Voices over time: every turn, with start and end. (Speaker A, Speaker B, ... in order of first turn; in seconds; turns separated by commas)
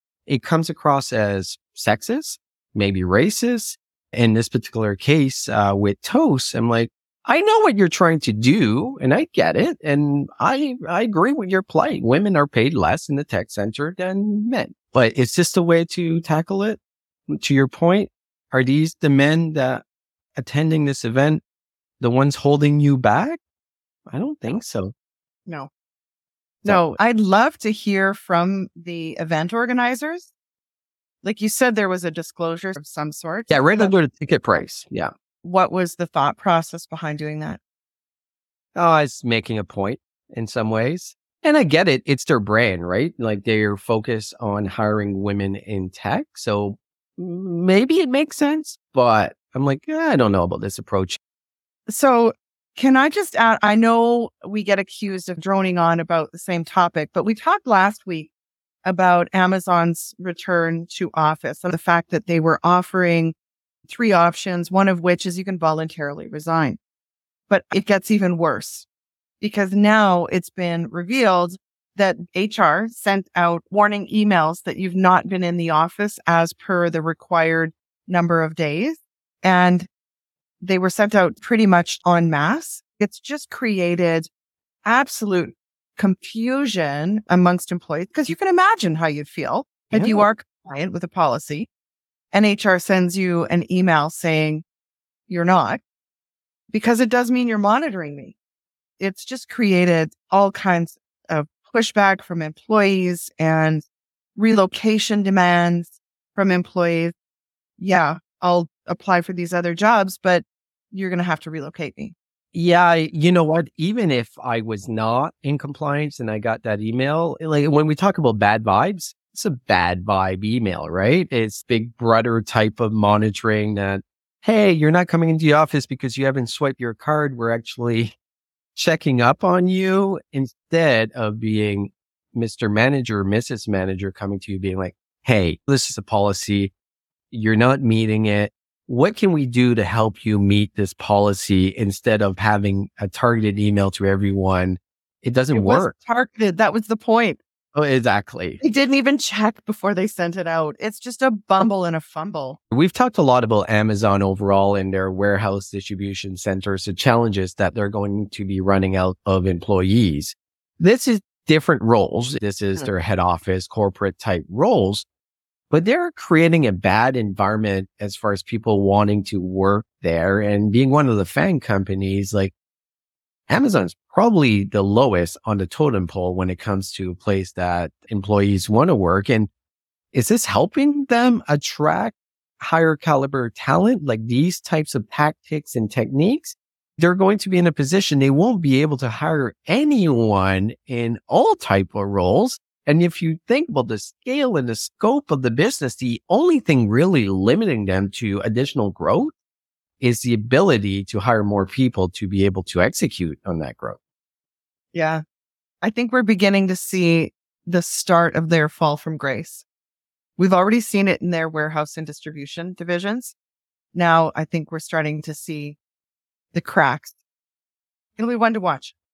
Speaker A: 0.3-19.8, Speaker A: 20.4-21.4, Speaker A: 22.0-23.4, Speaker A: 24.1-24.9, Speaker B: 26.6-30.3, Speaker B: 31.2-33.9, Speaker A: 33.5-35.1, Speaker B: 35.4-37.6, Speaker A: 38.8-51.2, Speaker B: 51.9-58.3, Speaker B: 58.9-63.4, Speaker B: 63.9-66.8, Speaker B: 67.5-68.9, Speaker B: 69.4-79.9, Speaker B: 80.6-84.3, Speaker B: 84.8-91.7, Speaker A: 89.9-90.2, Speaker B: 92.3-94.6, Speaker B: 95.3-95.8, Speaker B: 96.7-98.3, Speaker B: 99.0-103.8, Speaker B: 104.4-107.1, Speaker B: 107.8-112.2, Speaker A: 112.5-128.2, Speaker A: 128.8-136.7, Speaker A: 137.3-145.9, Speaker B: 145.5-147.4, Speaker A: 147.7-148.6, Speaker B: 148.6-152.6, Speaker A: 152.7-165.1, Speaker A: 165.7-172.5, Speaker A: 173.5-179.5, Speaker A: 180.1-199.3, Speaker A: 200.0-204.0, Speaker B: 204.9-205.2, Speaker B: 205.8-209.7, Speaker B: 210.4-213.3, Speaker B: 213.9-215.8, Speaker B: 216.5-217.1, Speaker B: 218.2-218.9